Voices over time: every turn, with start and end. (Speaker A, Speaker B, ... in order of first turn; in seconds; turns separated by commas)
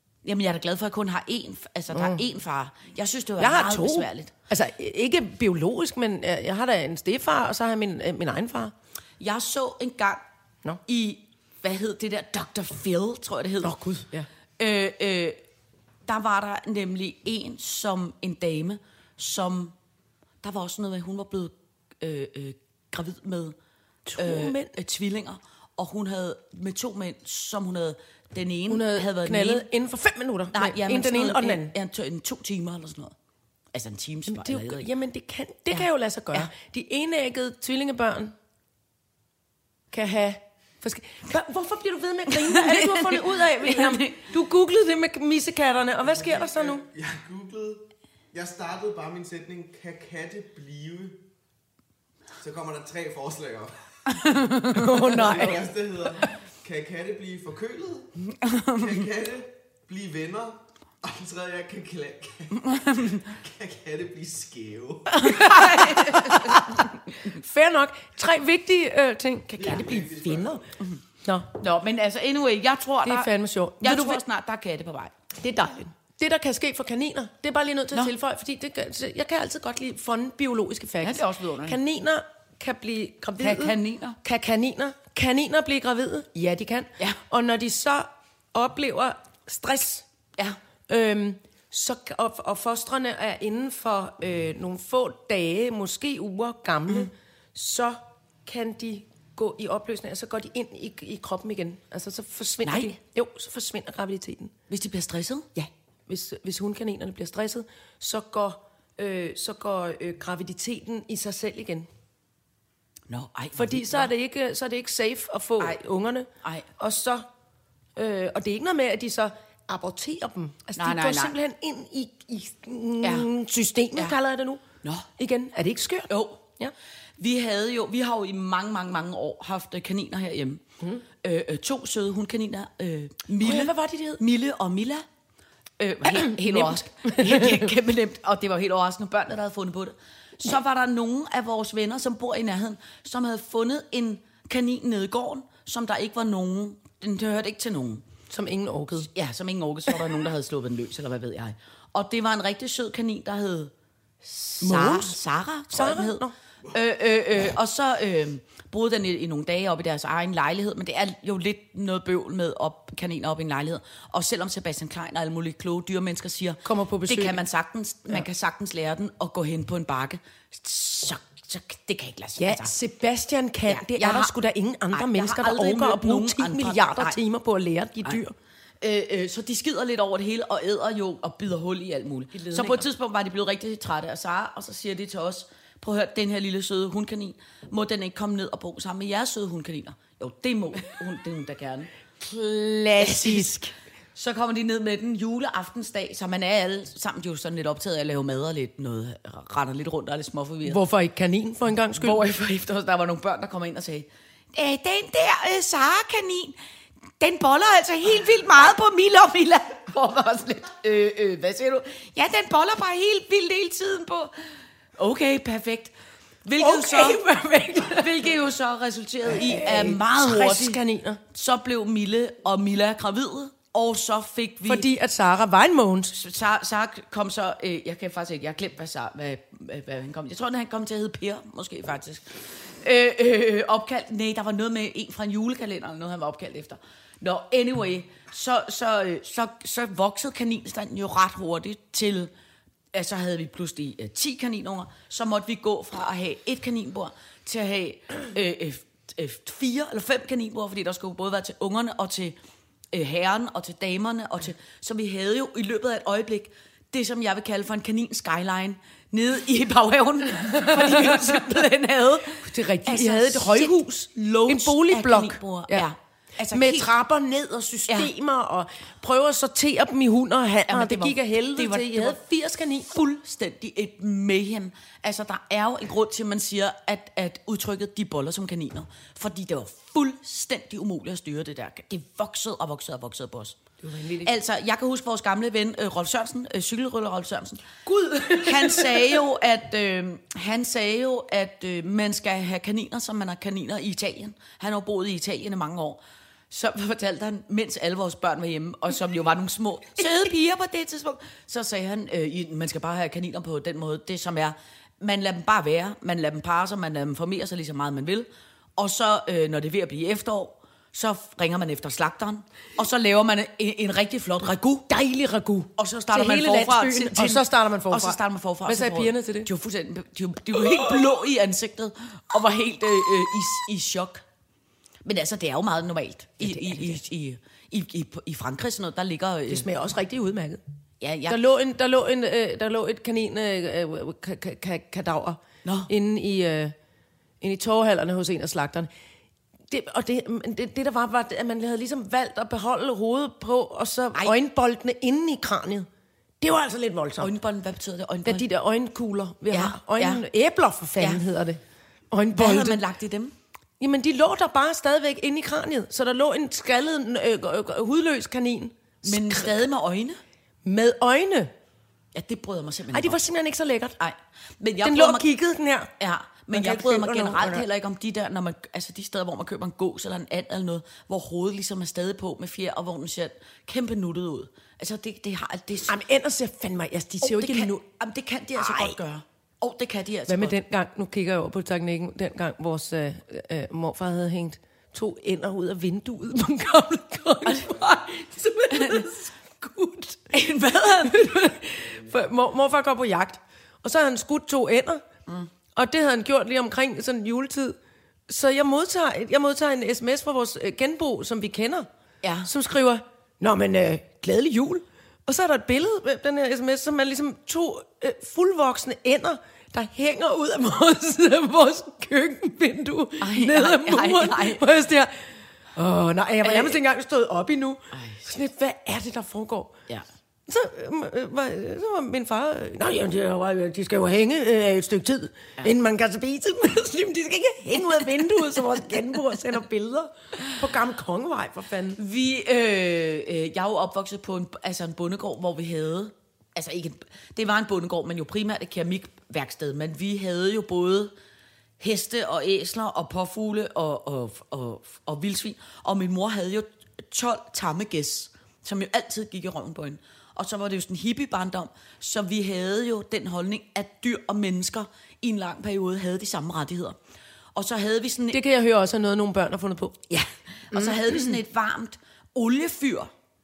Speaker A: 0.2-4.3, Speaker B: 1.9-2.2, Speaker B: 3.4-8.7, Speaker A: 9.2-10.2, Speaker A: 10.9-13.8, Speaker B: 13.6-14.3, Speaker A: 14.6-15.4, Speaker A: 16.1-19.8, Speaker A: 20.4-23.6, Speaker B: 24.1-24.7, Speaker A: 24.1-29.7, Speaker B: 28.7-31.7, Speaker A: 30.5-33.1, Speaker A: 33.7-34.9, Speaker B: 34.3-38.3, Speaker A: 35.7-36.5, Speaker B: 39.9-46.8, Speaker A: 42.3-44.2, Speaker C: 46.1-51.2, Speaker C: 52.4-53.7, Speaker A: 54.1-55.5, Speaker B: 54.7-55.6, Speaker C: 55.1-58.1, Speaker A: 58.3-59.0, Speaker C: 58.7-65.3, Speaker A: 62.6-63.2, Speaker A: 65.1-67.0, Speaker B: 65.1-70.6, Speaker C: 69.5-70.7, Speaker B: 71.2-71.5, Speaker A: 71.5-75.1, Speaker B: 73.0-74.2, Speaker B: 75.4-90.0, Speaker A: 81.0-81.8, Speaker A: 83.4-84.2, Speaker B: 90.9-104.5, Speaker A: 102.6-102.9, Speaker A: 104.7-105.5, Speaker B: 105.5-111.9, Speaker A: 113.1-114.1, Speaker B: 113.5-117.3, Speaker A: 116.4-116.7, Speaker B: 118.0-124.6, Speaker A: 120.8-121.4, Speaker A: 123.0-123.3, Speaker A: 124.8-125.1, Speaker B: 125.2-126.7, Speaker A: 126.1-126.4, Speaker A: 127.2-135.0, Speaker B: 133.4-134.2, Speaker A: 135.8-148.0, Speaker B: 136.1-137.7, Speaker B: 148.3-149.1, Speaker A: 149.1-153.7, Speaker A: 154.2-172.7, Speaker B: 154.6-156.3, Speaker B: 166.6-167.4, Speaker B: 172.4-178.3, Speaker A: 173.7-174.3, Speaker A: 174.9-177.2, Speaker A: 178.8-191.9, Speaker B: 182.3-182.9, Speaker B: 192.3-193.7, Speaker A: 192.9-200.8, Speaker B: 200.6-202.2, Speaker A: 201.9-206.6, Speaker A: 207.2-214.3, Speaker A: 215.0-215.9, Speaker A: 216.4-217.2, Speaker B: 216.6-218.2, Speaker A: 217.8-220.8, Speaker B: 219.3-221.2, Speaker A: 221.3-224.9, Speaker B: 224.7-226.2, Speaker A: 226.1-242.3, Speaker A: 242.9-252.4, Speaker A: 252.9-266.9, Speaker B: 260.5-261.4, Speaker B: 262.4-265.9, Speaker B: 266.5-272.9, Speaker A: 270.7-272.2, Speaker A: 272.9-283.6, Speaker B: 283.8-284.3, Speaker A: 284.2-287.6, Speaker B: 287.9-289.2, Speaker A: 288.2-314.9, Speaker B: 314.9-319.5, Speaker A: 315.8-324.2, Speaker A: 325.1-329.7, Speaker B: 326.4-327.0, Speaker B: 329.5-330.6, Speaker A: 331.0-331.4, Speaker B: 331.3-336.7, Speaker A: 335.6-335.9, Speaker B: 337.4-338.9, Speaker B: 339.7-345.9, Speaker B: 346.4-347.3, Speaker A: 347.2-348.4, Speaker B: 348.2-351.6, Speaker A: 349.5-350.2, Speaker A: 351.0-351.2, Speaker B: 352.1-352.8, Speaker A: 352.4-353.3, Speaker B: 353.8-359.6, Speaker A: 359.0-360.2, Speaker B: 360.6-361.5, Speaker A: 362.1-363.2, Speaker B: 362.9-364.0, Speaker A: 364.0-365.3, Speaker B: 364.8-365.9, Speaker A: 366.0-376.0, Speaker B: 366.5-367.6, Speaker B: 375.9-377.8, Speaker A: 377.2-380.6, Speaker B: 378.6-379.0, Speaker B: 380.3-390.2, Speaker A: 387.4-387.8, Speaker A: 388.7-389.1, Speaker A: 390.3-391.3, Speaker B: 391.0-395.0, Speaker B: 395.8-397.8, Speaker B: 398.3-401.9, Speaker A: 402.2-402.5, Speaker B: 402.4-419.8, Speaker A: 413.2-414.6, Speaker A: 416.4-416.8, Speaker A: 417.9-418.3, Speaker B: 420.5-432.0, Speaker A: 432.0-441.1, Speaker A: 441.8-457.0, Speaker A: 457.6-458.4, Speaker B: 458.3-460.0, Speaker A: 460.1-463.1, Speaker B: 460.7-461.3